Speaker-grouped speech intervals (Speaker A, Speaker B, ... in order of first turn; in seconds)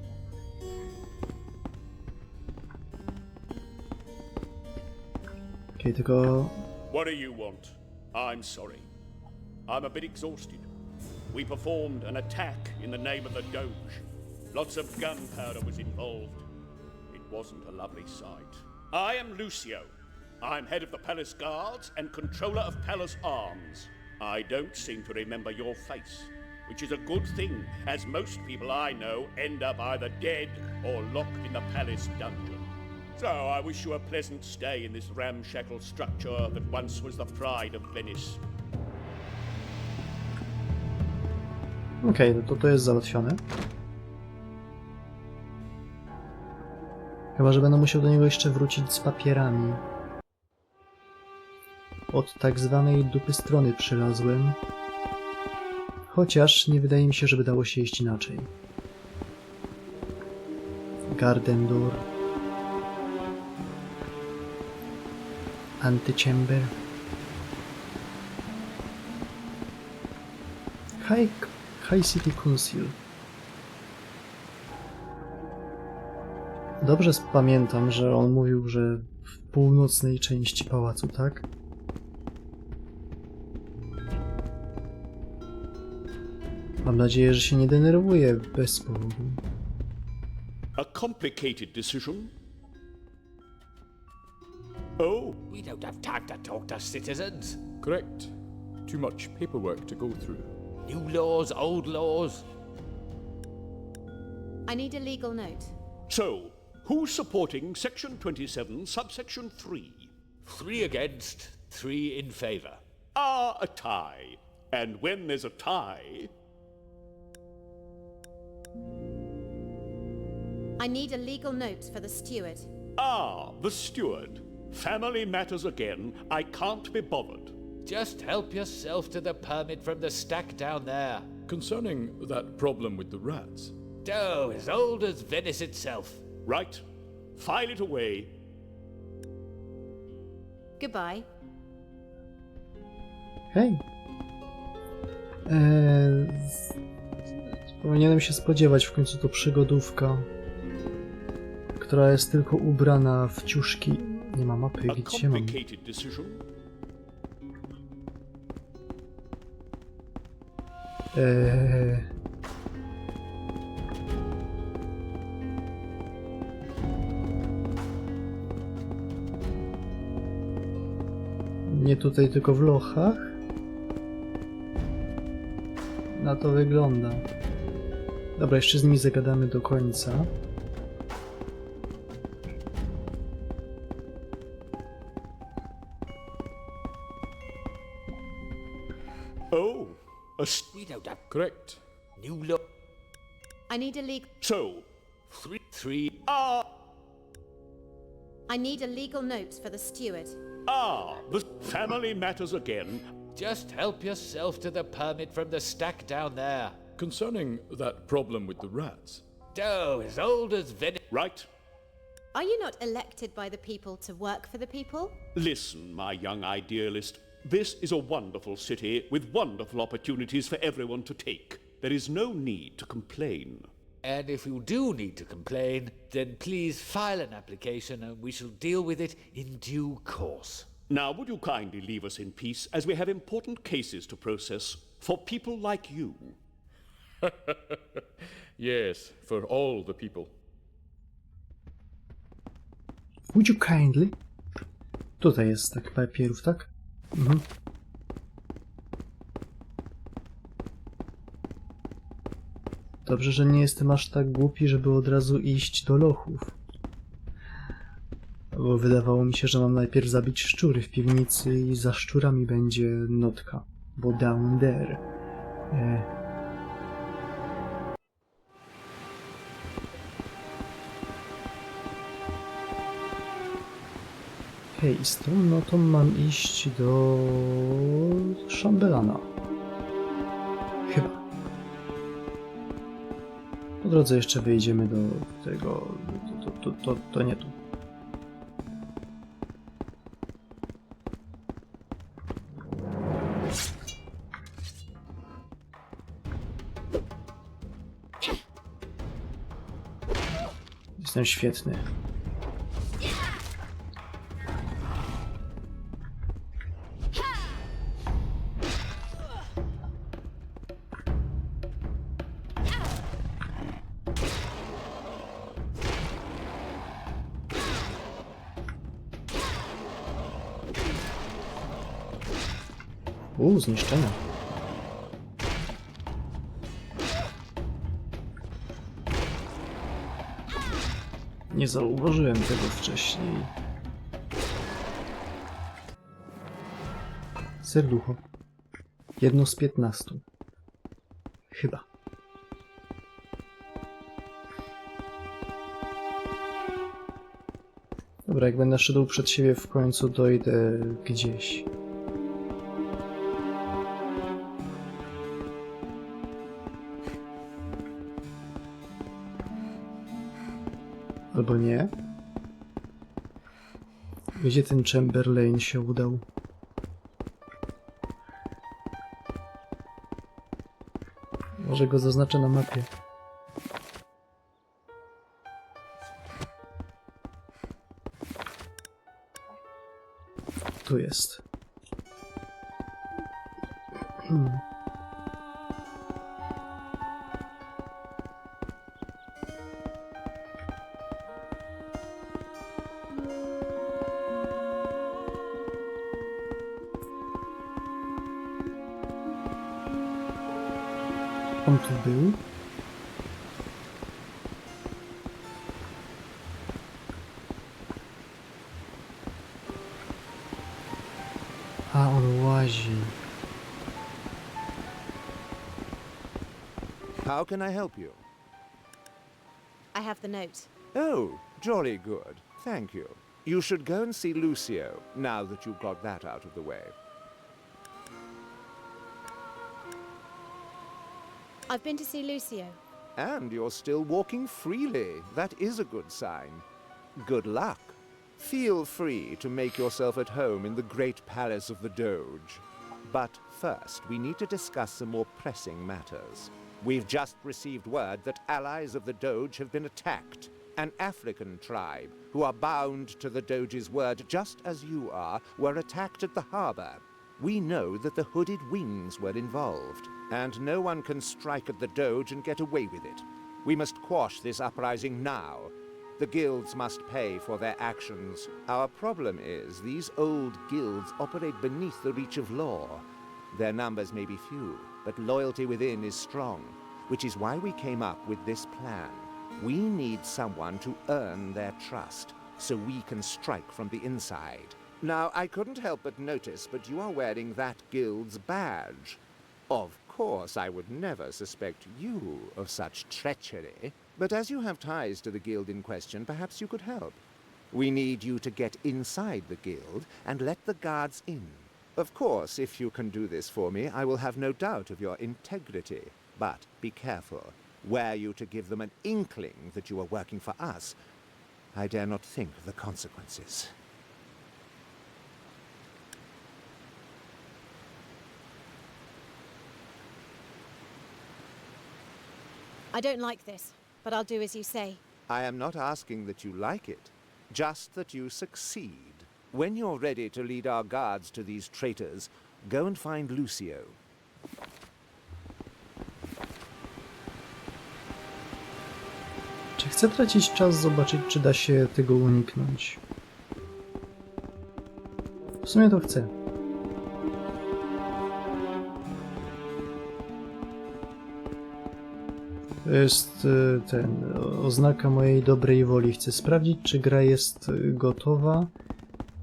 Speaker A: 5.8-6.6, 42.0-43.4, 47.4-49.8, 52.1-54.6, 56.1-58.5, 61.1-62.0, 65.8-66.7, 71.0-73.0, 76.8-81.4, 86.8-89.4, 143.5-143.8, 145.4-146.6, 147.8-150.3, 151.8-155.6, 161.1-162.1, 171.7-173.4, 176.1-177.2, 178.4-180.3, 243.3-244.2, 245.2-247.4, 253.0-256.5, 258.5-265.0, 265.7-266.1, 274.7-279.3, 280.9-281.2, 283.8-287.5, 301.0-301.8, 323.4-324.2, 331.5-333.5, 337.6-338.2, 339.2-340.2, 341.5-341.8, 348.2-351.7, 361.3-361.9, 364.4-366.2, 371.6-372.9, 380.8-381.4, 384.2-384.6, 401.6-402.4, 411.9-413.1, 539.8-543.0, 545.6-546.3, 552.8-558.7
Speaker B: 6.9-8.9, 9.7-10.7, 11.3-16.4, 17.1-19.9, 20.4-38.4, 90.8-92.3, 95.0-95.4, 106.1-110.1, 113.2-116.3, 123.0-127.5, 136.4-136.8, 137.3-138.3, 154.9-156.4, 189.5-190.7, 194.4-194.9, 196.2-196.7, 200.7-203.1, 211.1-211.5, 215.3-223.7, 230.9-236.4
Speaker C: 95.5-97.6, 100.8-102.5, 110.4-112.8, 127.8-131.3, 134.0-136.2, 190.7-191.3, 192.2-192.7, 195.3-196.2, 203.3-206.8, 209.5-211.0, 224.0-230.7
Speaker D: 97.8-98.3, 98.8-100.5, 131.4-133.7, 191.3-191.8, 207.0-209.2, 237.2-238.0, 238.6-240.3
Speaker E: 104.7-105.7, 120.8-122.7, 140.8-141.3, 193.7-194.3, 198.5-200.4, 212.3-215.2, 419.9-420.7, 431.7-432.8, 522.9-525.0
Speaker F: 417.2-418.2, 420.9-426.9, 433.1-511.0, 511.7-513.7, 525.3-534.0